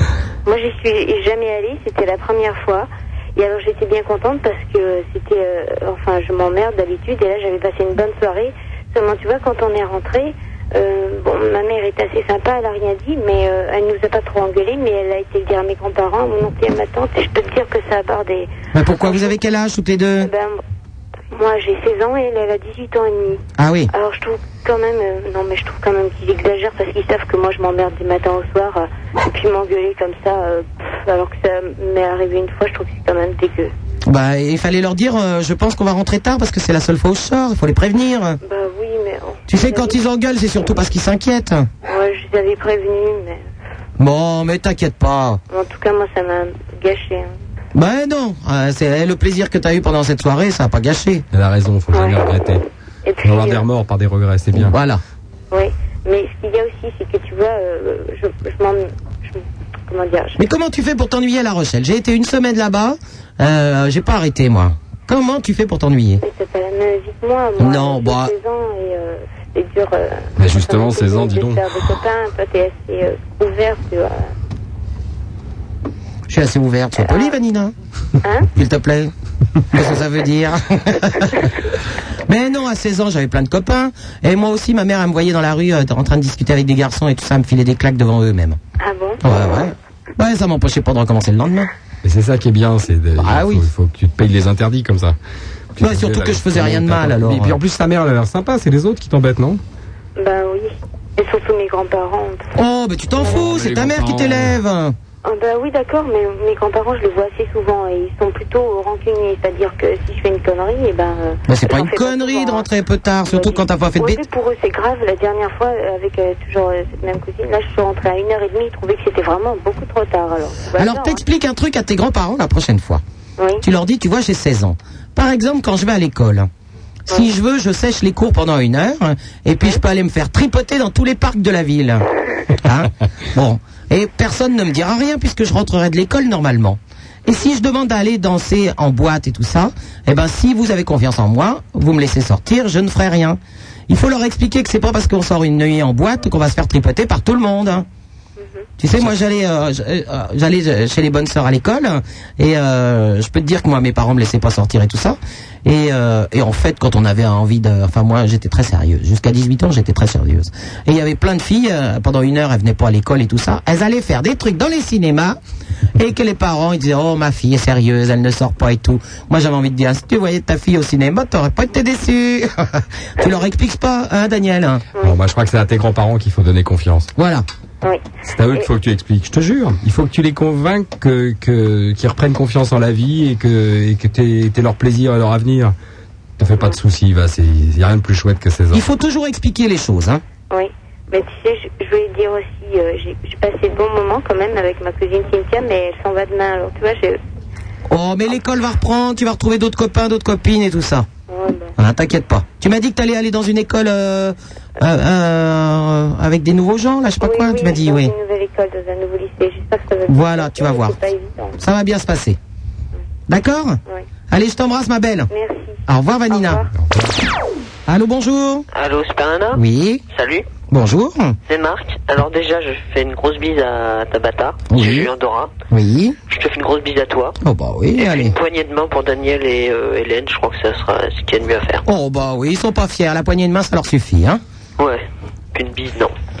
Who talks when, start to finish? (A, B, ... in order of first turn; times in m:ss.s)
0:00.4-0:18.5 A
0:18.7-0:20.3 B
0:19.0-0:19.3 A
0:20.2-0:20.6 A
0:21.3-0:33.7 A
0:23.6-0:23.9 B
0:34.1-0:38.4 B
0:38.4-0:40.0 A
0:39.5-0:41.7 B
0:41.8-0:43.4 A
0:44.0-0:45.4 B
0:45.5-0:47.3 A
0:47.7-0:51.2 B
0:51.3-0:52.6 C
0:51.9-0:52.2 A
0:53.0-0:53.6 A
0:53.2-0:54.7 C
0:54.5-0:55.0 B
0:55.5-1:00.4 A
1:00.4-1:06.2 B
1:06.2-1:14.3 A
1:07.6-1:08.3 B
1:10.4-1:11.6 C
1:16.3-1:17.7 B
1:17.0-1:17.3 A
1:18.2-1:18.5 A
1:18.5-1:19.1 B
1:19.7-1:21.5 B
1:22.3-1:28.6 B
1:28.8-1:29.2 A
1:29.2-1:31.7 B
1:32.0-1:35.2 C
1:33.2-1:33.6 B
1:35.7-1:39.6 C
1:35.8-1:37.6 B
1:40.2-1:42.5 A
1:42.5-1:44.9 B
1:43.1-1:44.6 C
1:45.2-1:52.7 A
1:51.5-1:54.2 B
1:53.2-2:01.2 A
2:00.8-2:03.0 B
2:03.4-2:03.6 A
2:03.6-2:06.5 B
2:07.1-2:27.9 B
2:28.4-2:28.7 A
2:28.8-2:45.4 B
2:45.9-2:54.9 B
2:55.0-2:57.1 C
2:57.2-2:57.4 B
2:58.2-3:05.7 C
3:06.4-3:08.8 C
3:08.7-3:10.2 B
3:10.5-3:17.2 A
3:17.9-3:21.1 B
3:21.3-3:21.7 A
3:21.8-3:28.1 B
3:27.2-3:31.6 A
3:30.1-3:31.0 B
3:31.6-3:32.4 B
3:33.3-3:33.8 B
3:34.3-3:35.3 B
3:35.3-3:36.7 A
3:35.9-3:36.7 B
3:36.8-3:37.1 C
3:37.9-3:38.7 B
3:38.7-3:40.5 D
3:39.5-3:40.0 B
3:40.7-3:41.4 B
3:41.5-3:45.5 D
3:44.7-3:45.1 B
3:45.7-3:46.2 B
3:46.3-3:47.4 D
3:47.4-3:48.4 B
3:47.9-3:51.8 D
3:51.8-3:54.4 B
3:55.5-3:56.1 D